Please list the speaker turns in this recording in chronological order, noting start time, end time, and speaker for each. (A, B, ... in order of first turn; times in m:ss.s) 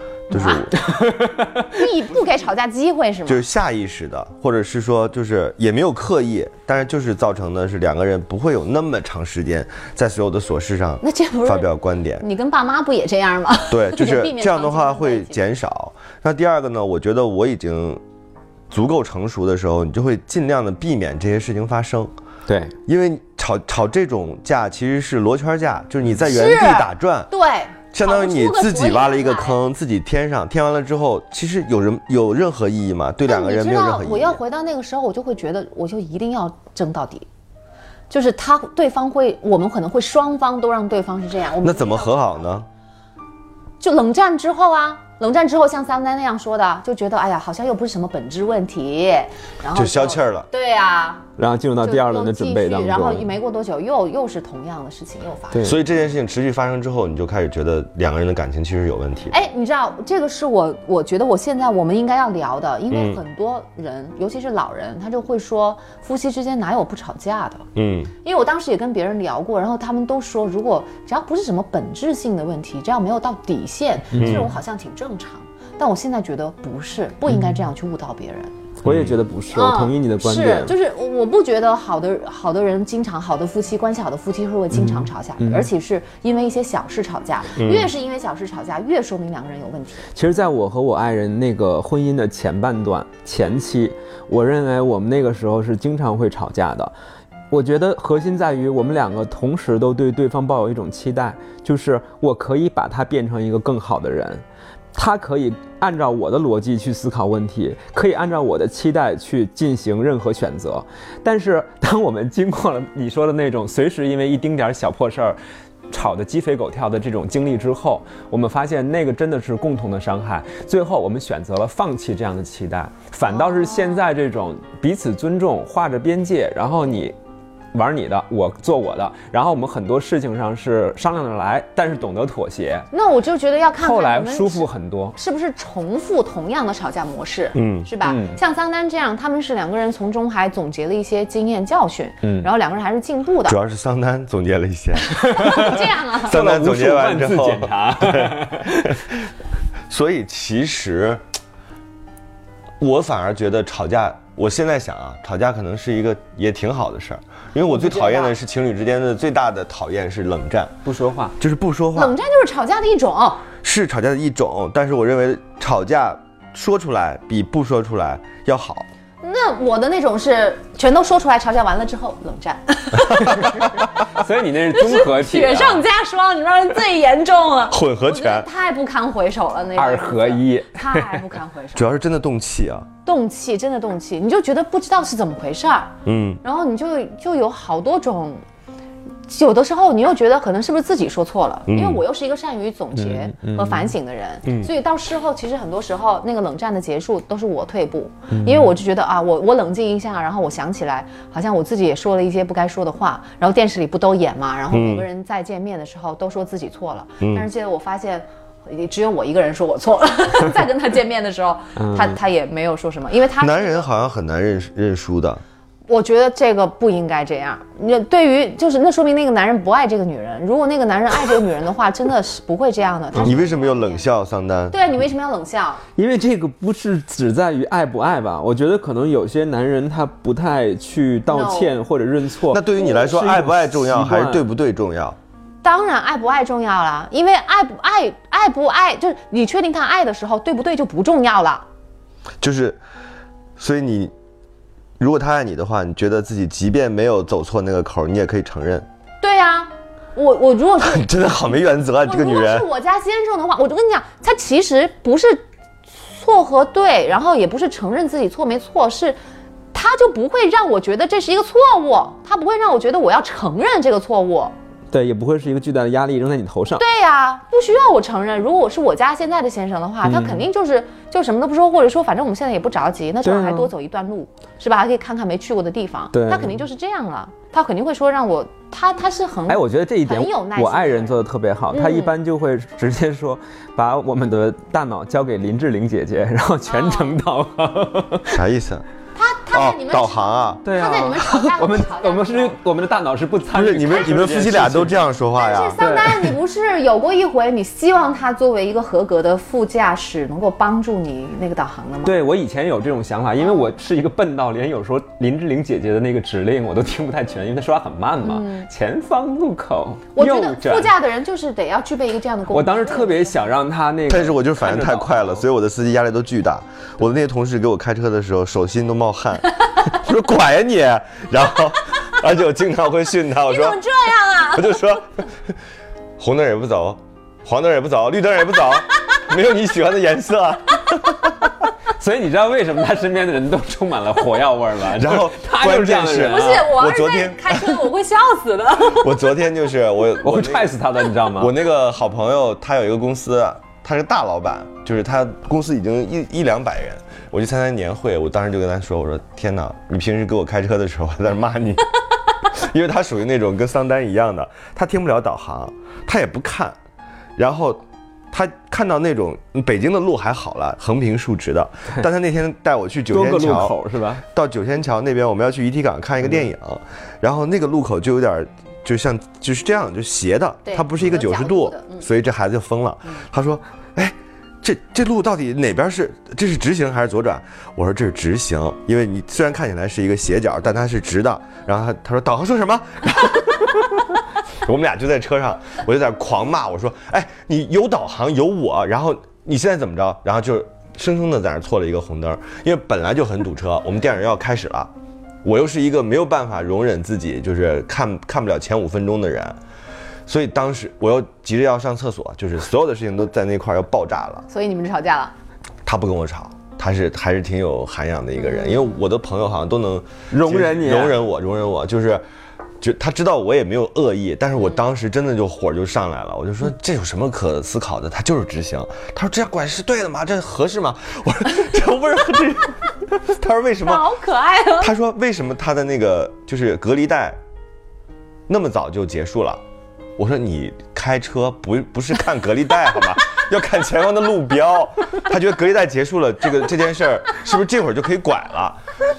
0:00.3-0:00.8 A
0:00.3-0:00.8 B
0:00.8-0:01.7 C
0:01.7-0:03.4 B
0:03.3-0:12.2 A
0:11.0-0:11.7 B
0:12.2-0:15.4 B
0:13.7-0:18.0 A
0:18.7-0:22.1 A
0:22.5-0:22.7 C
0:22.9-0:27.3 A
0:26.2-0:29.6 B
0:27.9-0:34.4 A
0:33.3-0:37.3 B
0:38.1-0:42.1 B
0:41.6-0:42.7 A
0:43.8-0:51.3 B
0:49.8-0:50.5 A
0:51.4-0:53.3 C
0:51.8-0:55.7 B
0:55.5-0:55.8 C
0:55.6-0:59.4 A
0:59.3-1:07.7 B
1:02.9-1:03.2 A
1:07.8-1:08.1 A
1:08.2-1:18.5 B
1:14.1-1:14.5 C
1:14.2-1:14.4 A
1:18.8-1:20.7 C
1:18.9-1:19.1 A
1:19.5-1:30.1 B
1:24.7-1:25.7 C
1:27.6-1:27.9 A
1:30.2-1:36.9 C
1:37.5-1:44.4 C
1:45.0-1:55.4 C
1:55.9-2:07.2 C
2:03.3-2:04.0 B
2:07.7-2:12.9 C
2:12.9-2:23.6 B
2:13.8-2:15.2 C
2:17.6-2:17.9 A
2:18.0-2:18.4 C
2:22.2-2:22.5 C
2:23.5-2:29.1 A
2:25.2-2:26.4 B
2:25.2-2:29.0 C
2:29.9-2:31.2 A
2:32.8-2:40.8 A
2:37.6-2:38.4 B
2:40.8-2:41.4 C
2:41.4-2:42.2 A
2:42.0-2:43.4 B
2:43.6-2:48.9 A
2:49.2-3:01.9 B
2:53.2-2:55.9 C
2:57.7-2:58.5 A
2:59.8-3:01.3 C
3:01.8-3:02.9 A
3:03.0-3:08.4 B
3:06.0-3:06.4 A
3:09.3-3:33.9 B
3:11.7-3:12.0 A
3:13.0-3:13.9 C
3:18.3-3:18.7 C
3:24.7-3:25.0 A
3:27.2-3:27.5 A
3:31.8-3:32.2 C
3:33.4-3:35.4 A
3:35.9-3:44.1 B
3:43.2-3:44.8 A
3:44.7-3:45.8 B
3:46.0-3:54.4 C
3:51.3-3:51.8 B
3:52.5-3:55.2 A
3:55.6-4:01.7 B
4:02.4-4:02.8 A
4:03.6-4:04.1 A
4:05.0-4:08.9 A
4:09.2-4:11.1 B
4:10.8-4:12.7 A
4:12.0-4:19.2 B
4:19.7-4:24.5 B
4:24.9-4:26.8 C
4:26.8-4:41.2 B
4:30.0-4:30.5 C
4:33.2-4:33.7 C
4:36.1-4:36.6 C
4:39.5-4:48.4 C
4:41.7-4:42.1 B
4:46.7-4:47.2 B
4:48.3-4:48.8 A
4:49.2-4:52.6 B
4:49.5-4:50.6 A
4:50.6-4:55.0 C
4:53.5-4:55.8 A
4:55.4-5:02.2 B
4:55.8-4:56.4 C
5:02.0-5:11.0 C
5:03.4-5:03.7 B
5:08.2-5:08.7 B
5:10.2-5:13.4 B
5:12.5-5:15.4 C
5:14.1-5:23.8 A
5:23.4-5:25.0 B
5:24.5-5:25.5 A
5:26.2-5:31.5 A
5:31.9-5:36.8 C
5:34.9-5:37.7 A
5:36.2-5:39.1 B
5:38.8-5:40.8 A
5:40.2-5:41.5 C
5:41.3-5:51.9 A
5:52.5-5:56.8 A
5:57.4-6:34.9 A
6:03.1-6:04.2 C
6:10.6-6:12.0 B
6:35.4-6:39.6 A
6:40.3-6:44.4 A
6:44.5-6:45.3 B
6:45.9-6:52.2 A
6:48.6-6:48.8 B
6:50.3-6:51.2 C
6:52.8-7:04.1 A
7:03.8-7:04.9 B
7:04.8-7:07.4 A
7:08.5-7:09.6 A
7:10.2-7:18.8 A